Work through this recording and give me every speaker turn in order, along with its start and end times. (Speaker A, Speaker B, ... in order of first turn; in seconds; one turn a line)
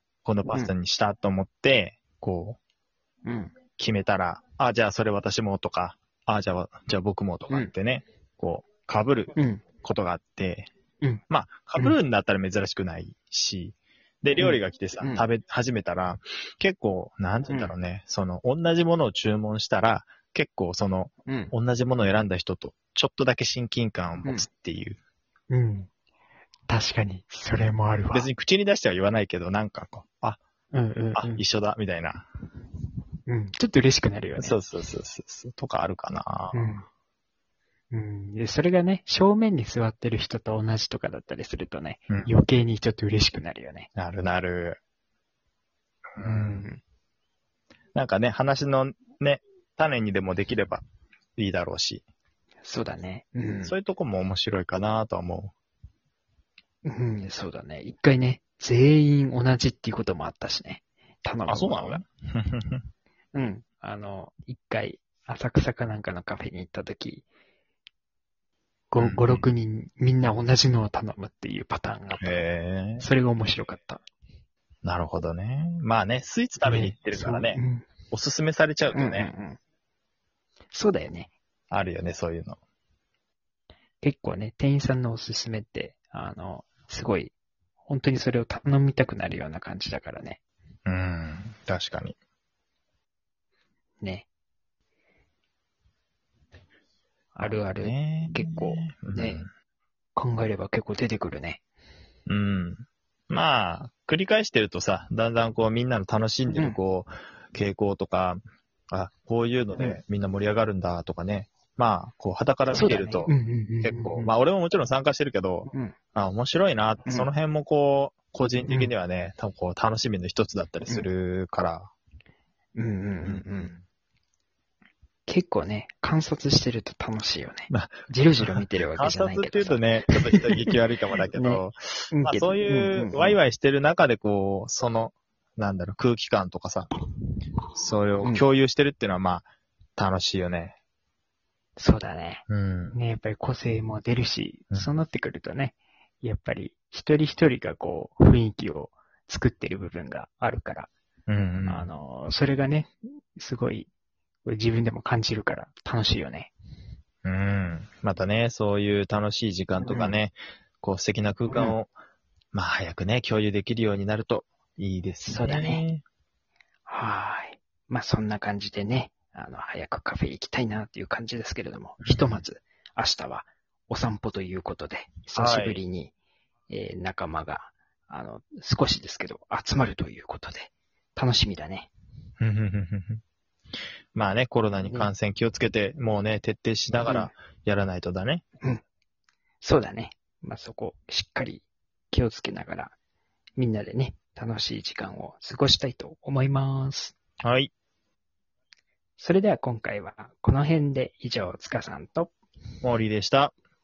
Speaker A: 0.2-2.6
Speaker B: 3.2-3.5
Speaker A: 3.8-10.7
Speaker B: 9.3-9.6
Speaker A: 11.3-25.0
Speaker B: 14.4-15.2
Speaker B: 17.5-17.7
Speaker B: 21.3-21.5
Speaker B: 25.5-25.9
Speaker B: 26.7-28.3
Speaker A: 28.1-30.4
Speaker B: 30.7-31.4
Speaker A: 31.1-32.3
Speaker B: 33.3-34.6
Speaker A: 34.4-36.7
Speaker B: 36.5-36.9
Speaker B: 37.9-43.9
Speaker A: 44.0-44.8
Speaker A: 46.2-46.7
Speaker B: 46.2-46.8
Speaker A: 48.0-50.8
Speaker A: 51.4-52.0
Speaker B: 52.6-53.7
Speaker A: 53.6-55.5
Speaker B: 56.9-62.0
Speaker A: 61.5-62.9
Speaker B: 63.3-67.2
Speaker B: 68.9-72.5
Speaker A: 69.0-69.5
Speaker A: 72.2-73.1
Speaker B: 73.0-74.0
Speaker A: 74.8-79.3
Speaker B: 76.6-77.9
Speaker B: 78.9-79.6
Speaker B: 80.7-81.3
Speaker A: 81.7-82.6
Speaker B: 84.0-87.3
Speaker B: 87.9-90.4
Speaker A: 90.9-92.2
Speaker B: 94.0-94.3
Speaker B: 97.3-99.5
Speaker A: 97.4-99.5
Speaker B: 100.2-101.6
Speaker A: 102.3-121.9
Speaker B: 106.5-106.8
Speaker B: 112.7-114.3
Speaker B: 115.7-116.0
Speaker B: 117.0-117.3
Speaker B: 118.7-118.9
Speaker B: 122.8-123.7
Speaker A: 123.2-123.8
Speaker B: 125.3-130.7
Speaker A: 127.7-136.9
Speaker B: 131.3-133.4
Speaker A: 137.8-140.8
Speaker B: 141.8-150.9
Speaker A: 142.5-143.0
Speaker A: 151.3-151.9
Speaker B: 151.7-153.9
Speaker B: 154.4-156.5
Speaker A: 157.2-161.9
Speaker B: 159.8-160.2
Speaker A: 162.5-166.0
Speaker B: 165.2-165.8
Speaker B: 166.9-176.1
Speaker A: 172.0-172.4
Speaker A: 175.3-175.8
Speaker B: 176.7-181.9
Speaker A: 182.4-183.2
Speaker A: 184.1-188.4
Speaker B: 184.8-185.1
Speaker B: 187.0-187.3
Speaker B: 189.6-193.0
Speaker B: 193.6-197.2
Speaker A: 197.4-197.7
Speaker B: 199.2-202.3
Speaker A: 202.8-203.5